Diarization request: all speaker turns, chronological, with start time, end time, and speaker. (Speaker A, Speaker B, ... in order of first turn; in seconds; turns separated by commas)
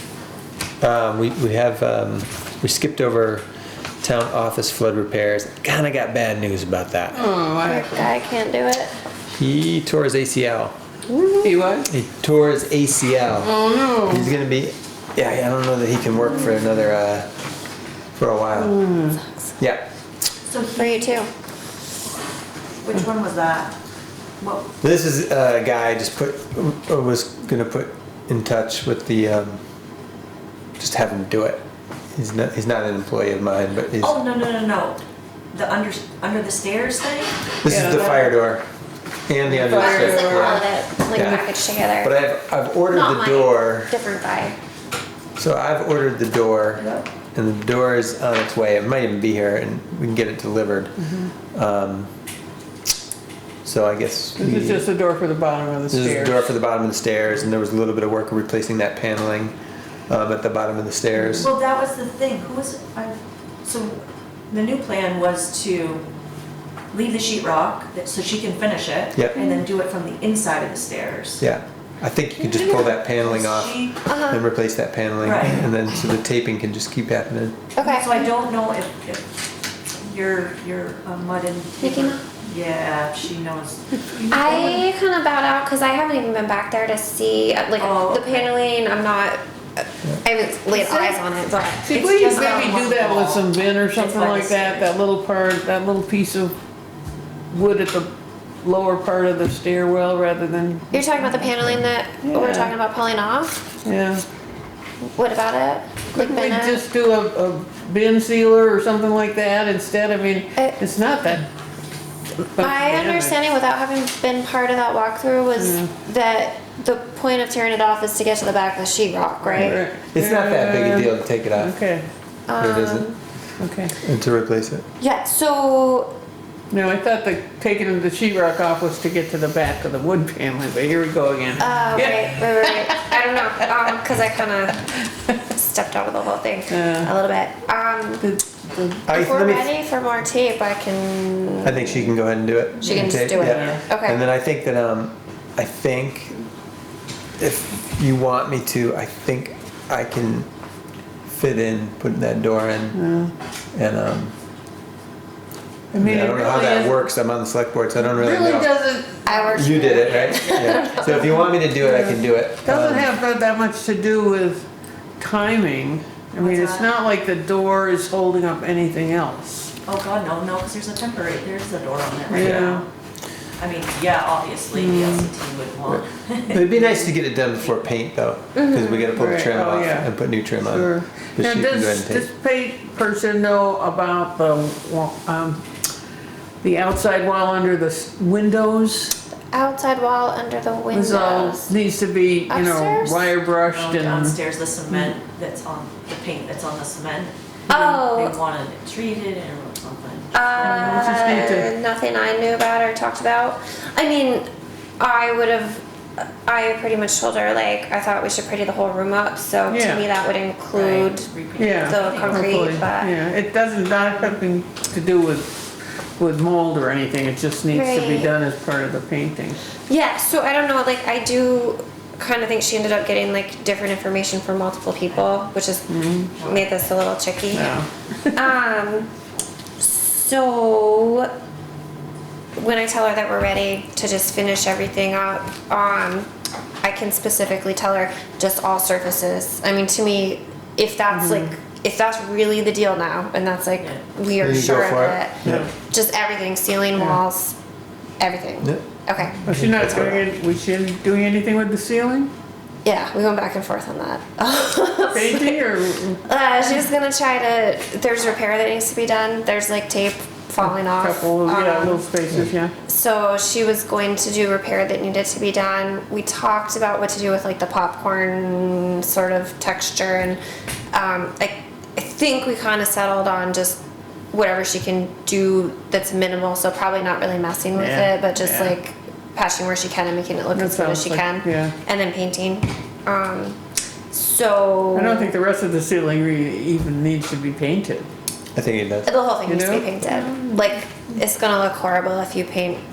Speaker A: 0.8-3.4, Speaker A: 4.0-7.2, Speaker B: 7.1-8.1, Speaker C: 7.6-8.9, Speaker A: 9.3-10.7, Speaker C: 11.1-11.5, Speaker B: 11.4-11.9, Speaker A: 11.9-17.3, Speaker B: 13.4-14.3, Speaker A: 18.1-18.8, Speaker B: 18.6-19.2, Speaker A: 19.6-19.8, Speaker D: 20.5-21.3, Speaker C: 20.8-21.3, Speaker D: 22.8-23.7, Speaker D: 24.4-24.7, Speaker A: 24.8-29.6, Speaker A: 30.8-31.6, Speaker A: 32.1-34.2, Speaker D: 33.9-37.4, Speaker A: 37.6-38.6, Speaker B: 37.6-38.3, Speaker A: 39.3-41.5, Speaker B: 39.5-40.6, Speaker C: 39.7-42.1, Speaker A: 42.0-43.9, Speaker C: 42.9-44.5, Speaker A: 45.4-51.0, Speaker D: 46.8-47.1, Speaker A: 51.5-52.1, Speaker A: 53.6-54.8, Speaker B: 54.4-56.5, Speaker A: 55.9-59.5, Speaker A: 60.1-61.5, Speaker D: 61.4-66.0, Speaker D: 66.9-71.4, Speaker A: 71.4-77.6, Speaker D: 72.4-74.0, Speaker C: 74.0-74.4, Speaker D: 75.2-75.6, Speaker C: 77.8-78.2, Speaker D: 77.8-79.2, Speaker D: 80.0-84.0, Speaker C: 81.8-82.2, Speaker B: 84.0-84.8, Speaker C: 84.3-92.8, Speaker D: 87.8-88.5, Speaker B: 90.7-91.2, Speaker B: 91.8-96.5, Speaker D: 91.9-94.9, Speaker B: 97.5-98.1, Speaker B: 98.6-101.3, Speaker C: 100.9-103.6, Speaker B: 102.2-102.7, Speaker B: 103.8-104.2, Speaker C: 105.1-106.8, Speaker B: 106.1-111.5, Speaker B: 112.5-113.3, Speaker C: 112.5-119.8, Speaker B: 115.6-115.9, Speaker B: 119.4-122.0, Speaker A: 120.1-121.7, Speaker C: 122.5-123.1, Speaker A: 122.6-123.1, Speaker B: 123.6-123.9, Speaker A: 124.0-124.8, Speaker C: 125.0-126.1, Speaker B: 126.7-133.0, Speaker C: 131.6-134.9, Speaker C: 135.4-138.3, Speaker B: 136.7-137.1, Speaker B: 138.2-139.0, Speaker A: 139.1-139.7, Speaker C: 139.1-141.9, Speaker A: 141.6-146.5, Speaker D: 142.8-143.7, Speaker C: 142.8-144.2, Speaker B: 143.3-143.8, Speaker A: 147.4-150.5, Speaker A: 151.2-153.0, Speaker B: 152.9-153.3, Speaker A: 153.7-154.3, Speaker B: 155.9-157.0, Speaker A: 156.0-158.7, Speaker B: 158.0-160.0, Speaker C: 159.2-161.2, Speaker A: 159.5-163.1, Speaker D: 159.8-161.3, Speaker B: 161.1-164.6, Speaker B: 165.2-169.7, Speaker D: 166.4-166.9, Speaker D: 169.8-172.9, Speaker B: 172.3-172.8, Speaker A: 172.3-172.7, Speaker D: 173.6-177.1, Speaker B: 174.7-175.3, Speaker A: 176.5-182.3, Speaker C: 178.6-179.1, Speaker B: 179.2-185.6, Speaker B: 186.6-189.2, Speaker C: 189.5-191.7, Speaker B: 190.9-194.4, Speaker C: 192.5-193.3, Speaker D: 193.7-201.6, Speaker C: 197.7-198.4, Speaker C: 200.3-204.4, Speaker B: 200.6-201.7, Speaker C: 205.0-213.1, Speaker B: 209.7-210.0, Speaker D: 210.7-212.8, Speaker B: 211.6-215.5, Speaker B: 216.2-219.6, Speaker C: 217.7-218.3, Speaker C: 219.9-225.9, Speaker B: 225.9-226.3, Speaker D: 226.3-226.8, Speaker C: 226.4-227.8, Speaker B: 227.5-228.4, Speaker C: 228.3-229.1, Speaker C: 229.8-231.3, Speaker C: 232.6-236.3, Speaker C: 236.8-247.5, Speaker B: 241.1-241.5, Speaker A: 244.4-245.7, Speaker C: 248.2-249.4, Speaker A: 249.4-250.2, Speaker B: 249.4-252.3, Speaker C: 252.8-255.6, Speaker B: 255.1-256.2, Speaker C: 256.2-262.0, Speaker B: 260.6-262.7, Speaker C: 262.9-270.4, Speaker C: 270.9-273.8, Speaker C: 274.3-283.6, Speaker B: 277.8-278.7, Speaker B: 280.5-281.7, Speaker C: 284.1-285.3, Speaker B: 284.9-288.1, Speaker A: 288.6-289.1, Speaker C: 289.0-292.8, Speaker B: 289.5-290.6